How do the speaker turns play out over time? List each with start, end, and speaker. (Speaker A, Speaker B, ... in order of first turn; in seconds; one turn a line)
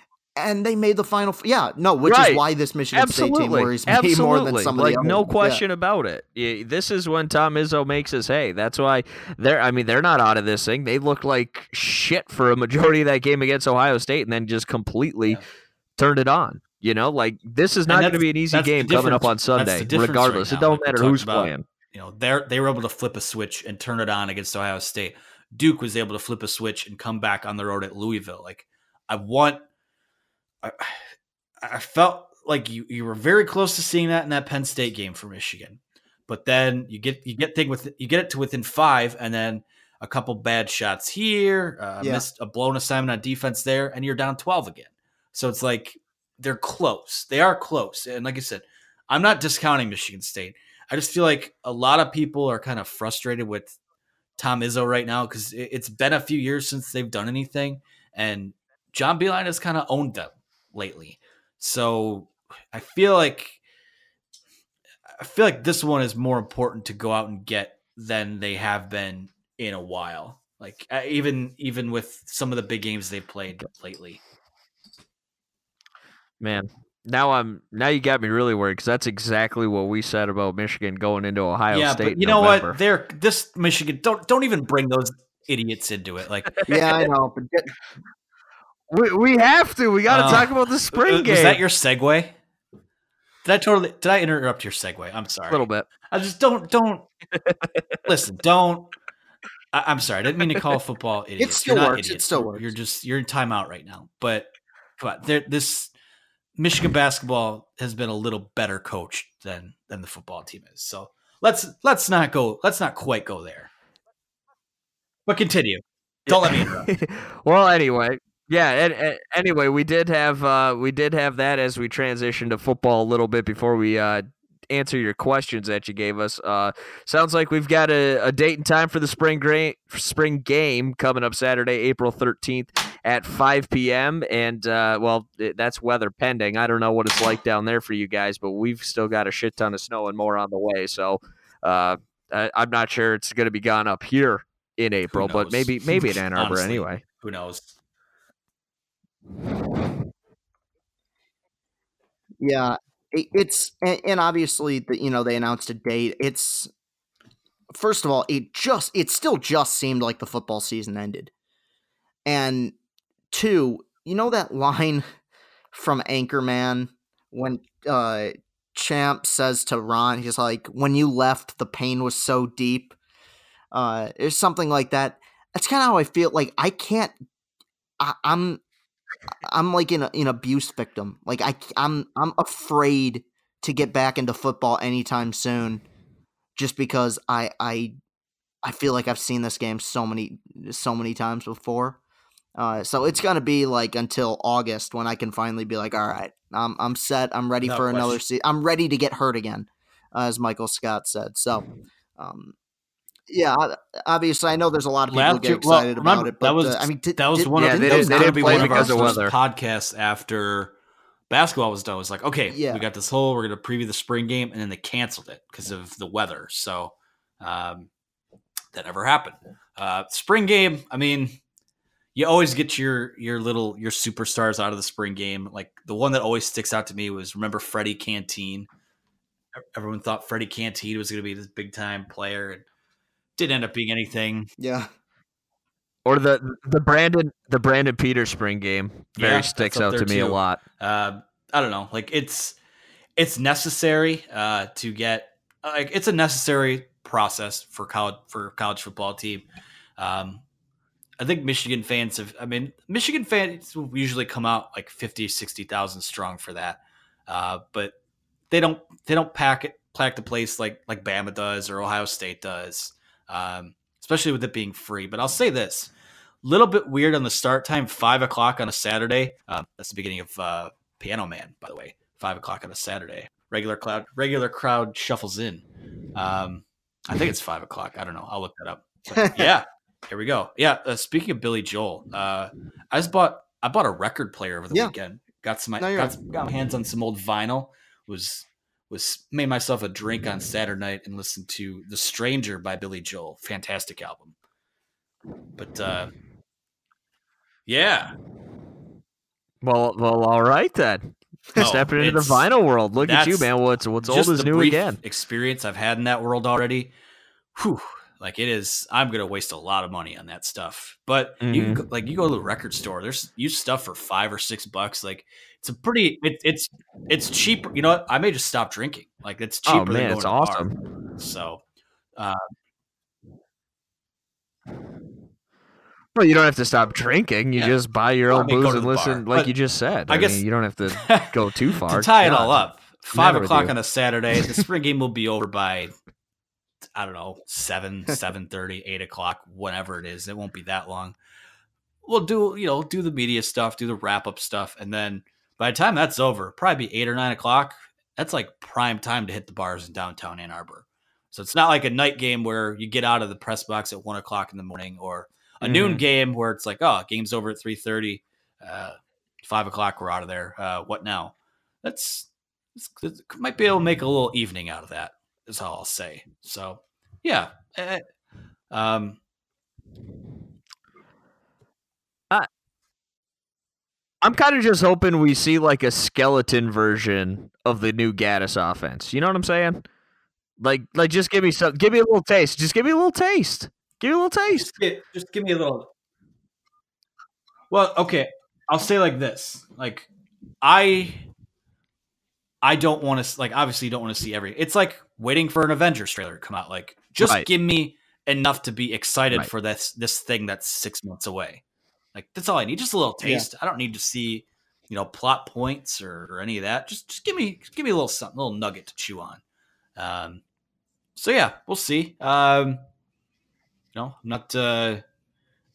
Speaker A: 0.3-5.6
Speaker B: 2.0-2.4
Speaker B: 2.9-15.4
Speaker B: 16.0-21.6
Speaker C: 17.9-29.6
Speaker C: 30.6-31.0
Speaker C: 31.6-53.8
Speaker A: 42.0-42.2
Speaker C: 54.4-63.6
Speaker C: 65.2-74.2
Speaker B: 76.4-82.8
Speaker C: 81.7-86.6
Speaker A: 86.7-87.7
Speaker B: 88.9-91.6
Speaker C: 90.1-92.4
Speaker C: 93.5-97.1
Speaker B: 95.5-95.9
Speaker B: 97.4-97.7
Speaker C: 98.1-98.9
Speaker C: 99.7-105.9
Speaker A: 101.4-102.7
Speaker C: 106.6-113.7
Speaker C: 115.3-116.9
Speaker B: 116.3-147.0
Speaker C: 145.1-147.7
Speaker A: 152.4-156.7
Speaker A: 157.7-161.3
Speaker A: 162.2-162.8
Speaker A: 163.3-165.1
Speaker A: 165.7-172.9
Speaker A: 173.7-177.1
Speaker A: 178.0-178.6
Speaker A: 179.4-185.8
Speaker A: 186.6-187.9
Speaker A: 188.6-192.0
Speaker A: 192.6-201.7
Speaker C: 197.6-198.2
Speaker A: 202.2-202.5
Speaker A: 203.3-209.2
Speaker C: 205.1-210.7
Speaker B: 207.6-209.3
Speaker C: 211.3-217.9
Speaker A: 212.5-212.8
Speaker C: 218.7-221.4
Speaker C: 222.1-228.7
Speaker C: 229.8-232.6
Speaker C: 233.4-234.5
Speaker A: 234.6-234.9
Speaker B: 236.1-240.6
Speaker C: 239.2-242.6
Speaker C: 243.2-249.5
Speaker C: 250.0-250.4
Speaker C: 251.2-257.9
Speaker C: 258.5-265.9
Speaker C: 266.4-294.4
Speaker A: 285.8-286.1
Speaker C: 295.6-296.1
Speaker C: 297.7-298.1
Speaker B: 299.6-305.0
Speaker C: 301.6-302.5
Speaker C: 303.0-306.9
Speaker C: 307.6-321.6
Speaker B: 311.4-311.8
Speaker B: 319.7-320.8
Speaker C: 322.2-322.4
Speaker B: 326.2-332.6
Speaker C: 327.6-329.5
Speaker C: 330.1-331.3
Speaker C: 331.9-335.9
Speaker B: 333.1-333.7
Speaker C: 336.9-341.2
Speaker C: 342.1-368.0
Speaker B: 355.6-356.0
Speaker C: 368.7-369.2
Speaker B: 374.2-379.8
Speaker B: 380.6-384.7
Speaker C: 384.5-385.9
Speaker C: 387.7-390.1
Speaker C: 390.6-391.3
Speaker C: 392.6-401.6
Speaker B: 397.2-397.5
Speaker C: 402.1-409.4
Speaker A: 403.2-403.5
Speaker C: 410.0-410.4
Speaker C: 411.2-412.8
Speaker C: 413.9-415.0